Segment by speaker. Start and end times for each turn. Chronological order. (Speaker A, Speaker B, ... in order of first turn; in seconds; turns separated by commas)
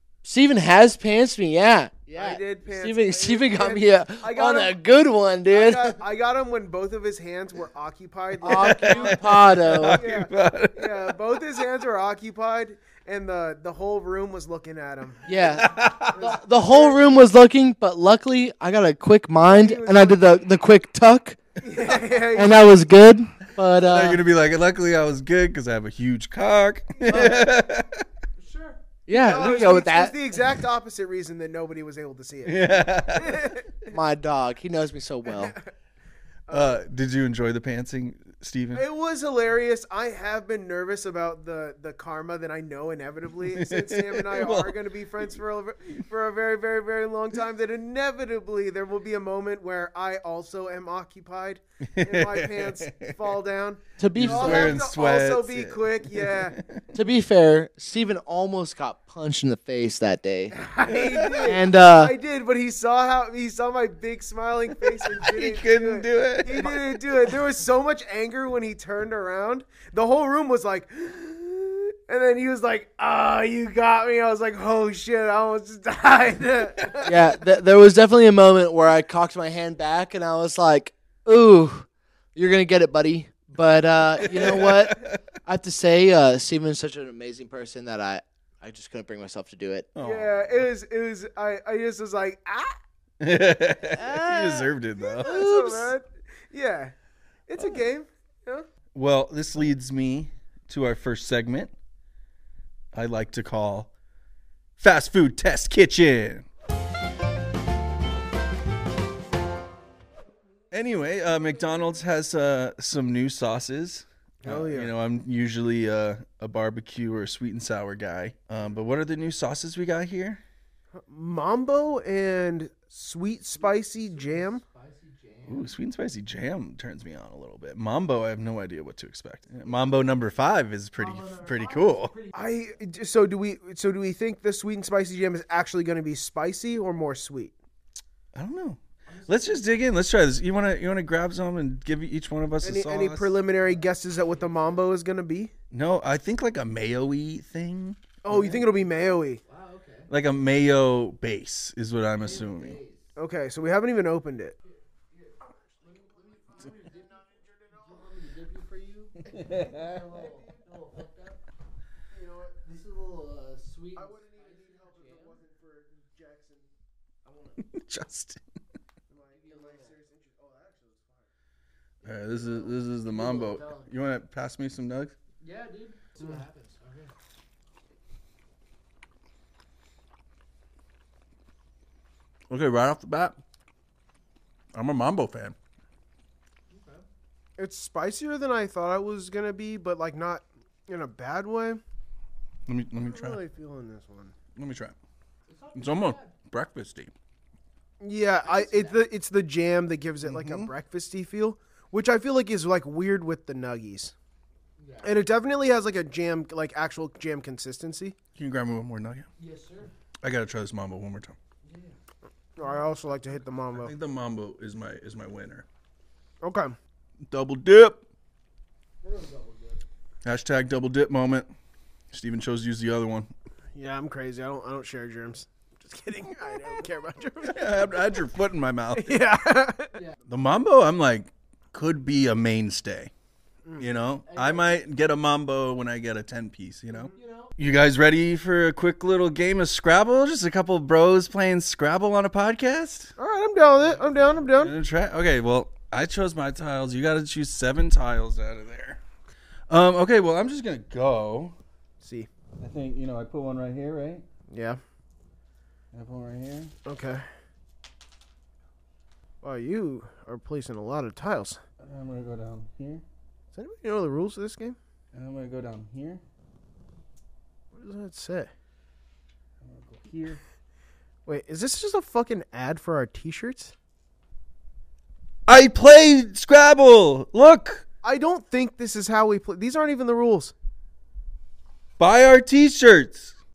Speaker A: 0.2-6.0, Speaker B: 2.1-4.8, Speaker B: 5.5-9.2, Speaker A: 8.4-10.0, Speaker C: 8.6-11.2, Speaker B: 9.9-15.3, Speaker A: 15.2-21.4, Speaker C: 15.6-16.1, Speaker B: 16.1-17.2, Speaker B: 19.4-20.3, Speaker B: 21.6-22.7, Speaker A: 22.2-24.2, Speaker C: 23.9-28.0, Speaker B: 26.9-27.5, Speaker A: 27.1-27.5, Speaker A: 28.4-30.4, Speaker B: 29.1-33.7, Speaker C: 32.5-33.5, Speaker A: 33.9-35.5, Speaker B: 35.2-35.7, Speaker B: 36.5-36.8, Speaker C: 36.5-38.8, Speaker B: 38.7-56.6, Speaker C: 43.5-46.0, Speaker C: 51.9-53.3, Speaker A: 54.0-54.8, Speaker C: 54.1-56.8, Speaker A: 56.9-60.6, Speaker B: 60.5-77.2, Speaker C: 60.9-61.6, Speaker A: 61.5-62.1, Speaker C: 65.2-66.8, Speaker A: 77.0-89.9, Speaker C: 84.2-85.2, Speaker C: 90.0-90.7, Speaker B: 90.0-92.7, Speaker C: 93.2-95.3, Speaker A: 93.9-95.9, Speaker B: 95.0-96.9, Speaker B: 97.5-98.7, Speaker C: 98.9-101.7, Speaker C: 102.9-103.9, Speaker C: 104.8-106.5, Speaker C: 110.7-120.4, Speaker B: 114.4-114.9, Speaker B: 120.9-124.6, Speaker A: 123.5-125.8, Speaker C: 125.5-132.1, Speaker A: 131.0-132.8, Speaker B: 132.3-137.6, Speaker C: 138.3-143.4, Speaker A: 139.1-139.7, Speaker B: 142.6-145.5, Speaker A: 143.6-144.9, Speaker C: 145.7-148.0, Speaker B: 148.2-149.4, Speaker A: 148.3-148.7, Speaker A: 149.5-150.1, Speaker C: 150.1-152.8, Speaker A: 152.2-153.1, Speaker B: 153.2-154.6, Speaker A: 154.6-161.4, Speaker B: 156.0-158.1, Speaker C: 159.6-159.9, Speaker B: 162.1-162.6, Speaker A: 162.6-165.4, Speaker B: 163.9-166.7, Speaker A: 167.3-167.6, Speaker C: 167.6-168.4, Speaker B: 169.1-171.3, Speaker A: 169.3-169.9, Speaker B: 172.0-172.8, Speaker C: 172.0-175.2, Speaker A: 173.1-173.9, Speaker A: 175.4-177.1, Speaker C: 182.5-183.4, Speaker C: 184.7-185.6, Speaker A: 186.7-187.1, Speaker B: 187.6-191.8, Speaker C: 192.7-193.4, Speaker B: 193.0-194.3, Speaker C: 194.6-195.0, Speaker A: 195.5-196.3, Speaker C: 195.7-197.1, Speaker B: 198.0-204.1, Speaker A: 198.4-199.0, Speaker C: 200.2-200.7, Speaker A: 204.8-205.2, Speaker B: 205.0-208.2, Speaker C: 208.3-209.3, Speaker A: 209.4-209.9, Speaker C: 210.2-211.4, Speaker A: 211.6-212.0, Speaker B: 212.6-213.9, Speaker A: 212.6-213.0, Speaker C: 213.7-215.7, Speaker B: 216.4-216.8, Speaker C: 217.3-218.0, Speaker A: 219.0-219.8, Speaker C: 220.2-221.5, Speaker C: 222.1-223.3, Speaker B: 223.8-228.2, Speaker C: 227.5-229.2, Speaker B: 228.9-230.0, Speaker C: 230.3-233.1, Speaker B: 233.7-233.9, Speaker C: 233.8-243.1, Speaker A: 234.2-234.8, Speaker A: 237.1-237.5, Speaker B: 243.2-244.7, Speaker A: 243.7-244.6, Speaker C: 244.6-249.0, Speaker C: 249.7-251.6, Speaker B: 252.0-252.3, Speaker C: 252.6-254.2, Speaker B: 254.5-254.8, Speaker C: 255.9-256.7, Speaker B: 256.9-257.2, Speaker B: 259.4-261.6, Speaker C: 261.8-263.0, Speaker B: 263.5-264.8, Speaker C: 265.1-266.2, Speaker B: 267.7-268.5, Speaker C: 269.6-270.4, Speaker B: 271.3-273.7, Speaker C: 275.5-277.9, Speaker B: 278.0-280.5, Speaker C: 282.0-283.4